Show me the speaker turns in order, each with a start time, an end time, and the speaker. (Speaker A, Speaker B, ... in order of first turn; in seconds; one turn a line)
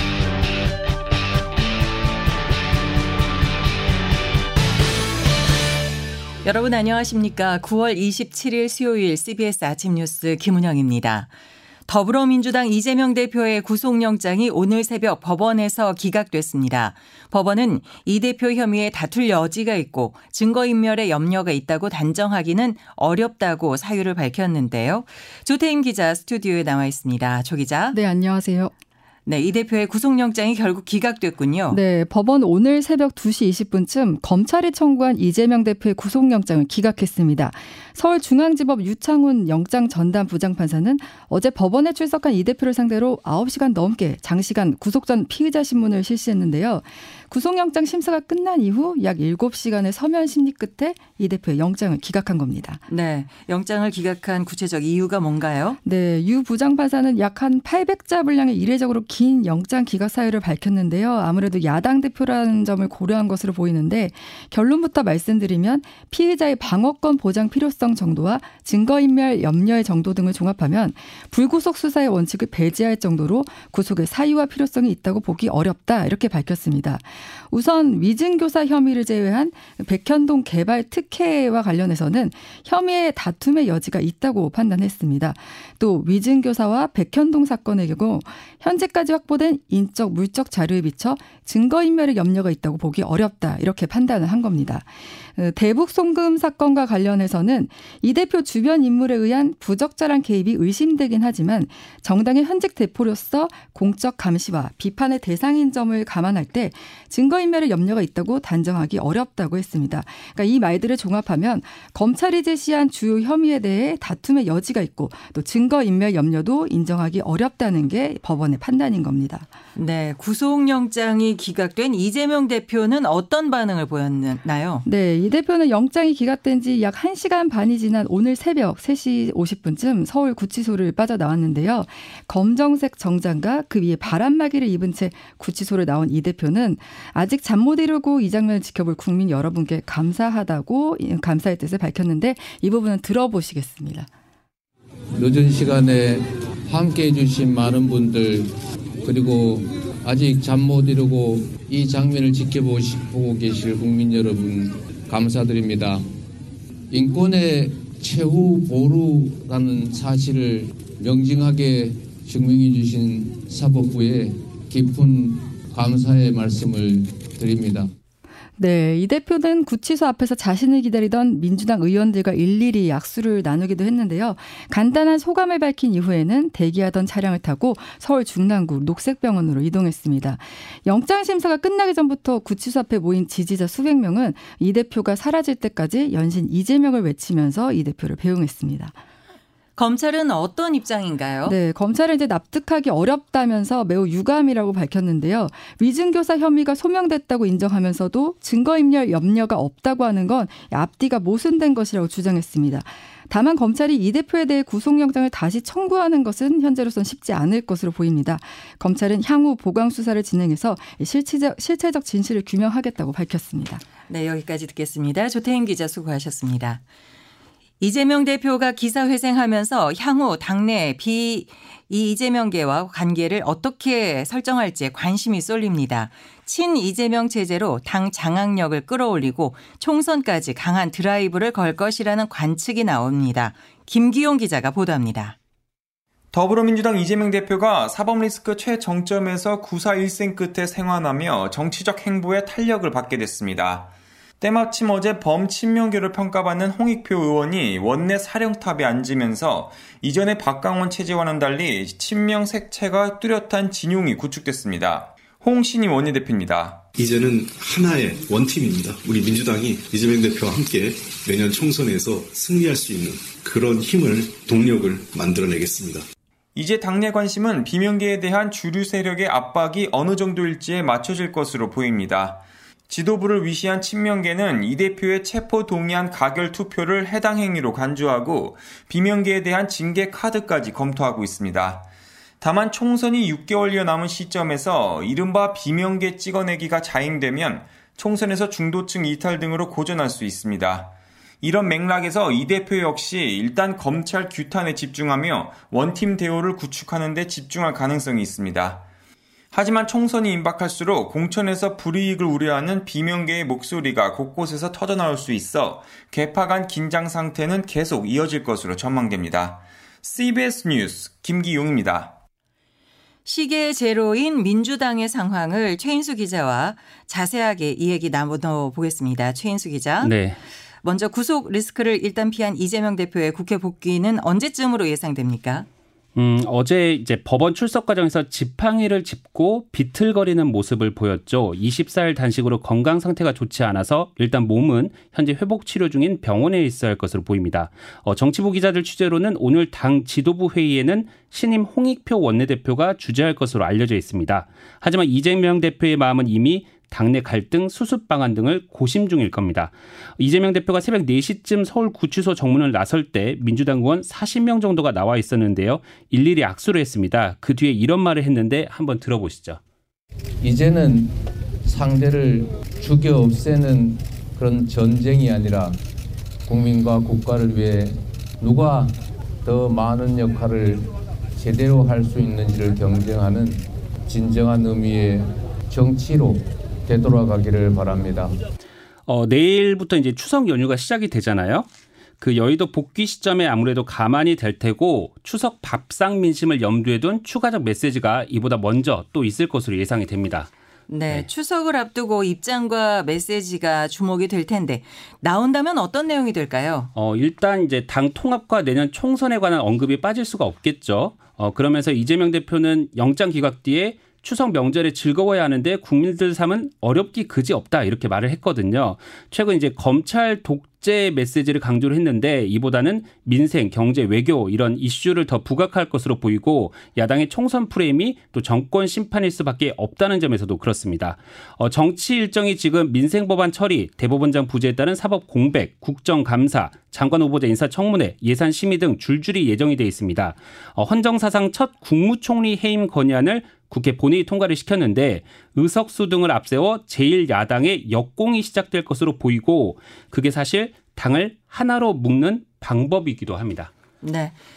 Speaker A: 6.4-11.3
Speaker A: 11.9-28.0
Speaker B: 27.9-28.7
Speaker A: 29.2-31.8
Speaker B: 31.7-52.8
Speaker A: 52.9-55.8
Speaker B: 55.8-119.5
Speaker A: 119.7-124.8
Speaker B: 124.8-144.1
Speaker C: 145.1-148.5
Speaker C: 149.0-156.0
Speaker C: 156.9-167.9
Speaker B: 168.6-189.0
Speaker A: 189.8-191.6
Speaker B: 191.4-213.8
Speaker A: 214.1-216.8
Speaker A: 217.8-235.3
Speaker D: 236.3-256.9
Speaker E: 257.0-266.0
Speaker D: 266.5-281.9
Speaker D: 282.4-298.9
Speaker D: 299.5-312.2
Speaker A: 313.2-320.1
Speaker F: 320.0-320.4
Speaker A: 320.8-325.7
Speaker F: 326.1-359.6
Speaker C: 360.4-361.1
Speaker C: 361.6-365.8
Speaker C: 366.4-378.4
Speaker F: 379.1-381.7
Speaker F: 382.2-390.5
Speaker A: 390.9-396.9
Speaker F: 396.9-443.7
Speaker A: 444.0-444.3